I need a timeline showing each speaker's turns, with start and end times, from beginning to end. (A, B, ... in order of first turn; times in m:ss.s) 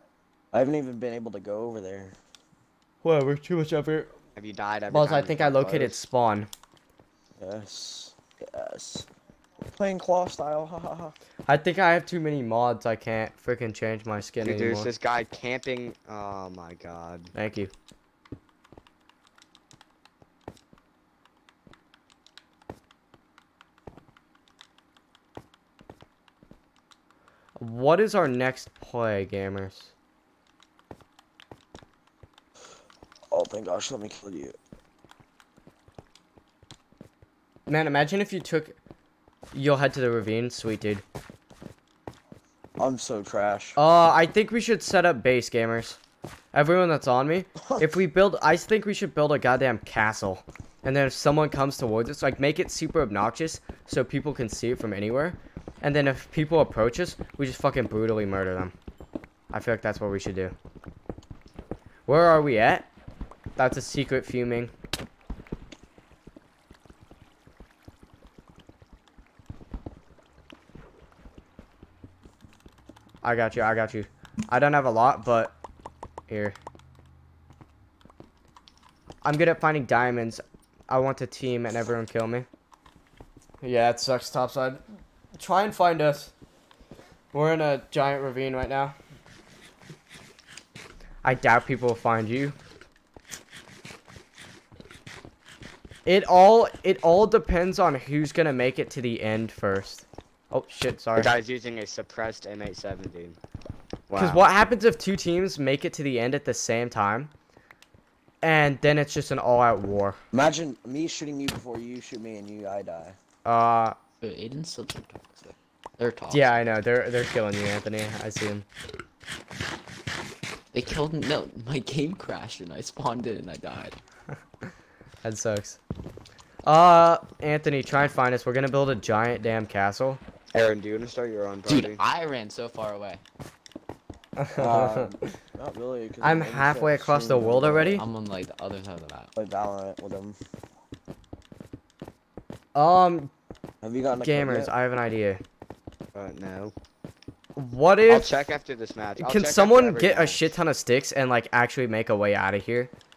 0:00.5-0:02.2 A
0:03.0-0:04.1 B
0:04.4-0:06.0 C
0:04.9-0:06.5 B
0:07.4-0:09.1 A
0:09.8-0:11.1 A
0:11.5-0:14.9 B
0:14.4-0:17.3 C
0:17.3-0:17.7 B
0:27.6-0:29.9 B
0:33.3-0:34.5 A
0:37.7-0:38.8 B
0:39.5-0:41.0 B
0:42.8-0:43.8 A
0:43.8-0:46.0 B
0:46.5-0:58.7 B
0:59.5-1:00.5 B
1:02.1-1:02.9 B
1:03.6-1:04.7 B
1:13.2-1:15.5 B
1:16.3-1:16.6 B
1:19.2-1:22.5 B
1:23.6-1:24.8 B
1:25.3-1:26.3 B
1:27.3-1:28.9 B
1:31.2-1:32.5 B
1:36.0-1:41.3 B
1:41.1-1:43.4 C
1:44.1-1:44.5 C
1:44.2-1:47.3 B
1:48.4-1:50.2 B
1:50.3-1:53.2 A
1:53.4-1:54.0 B
1:54.2-1:56.6 D
1:56.3-1:58.6 B
2:00.7-2:04.0 D
2:05.2-2:05.8 B
2:06.6-2:10.2 B
2:10.5-2:12.0 C
2:11.7-2:13.2 D
2:14.4-2:15.2 B
2:14.6-2:18.0 A
2:16.2-2:18.0 B
2:18.0-2:19.3 D
2:19.4-2:20.4 A
2:22.7-2:23.3 B
2:23.8-2:24.7 A
2:24.2-2:25.4 B
2:26.1-2:26.7 C
2:27.6-2:28.3 B
2:28.1-2:30.5 C
2:29.2-2:32.9 B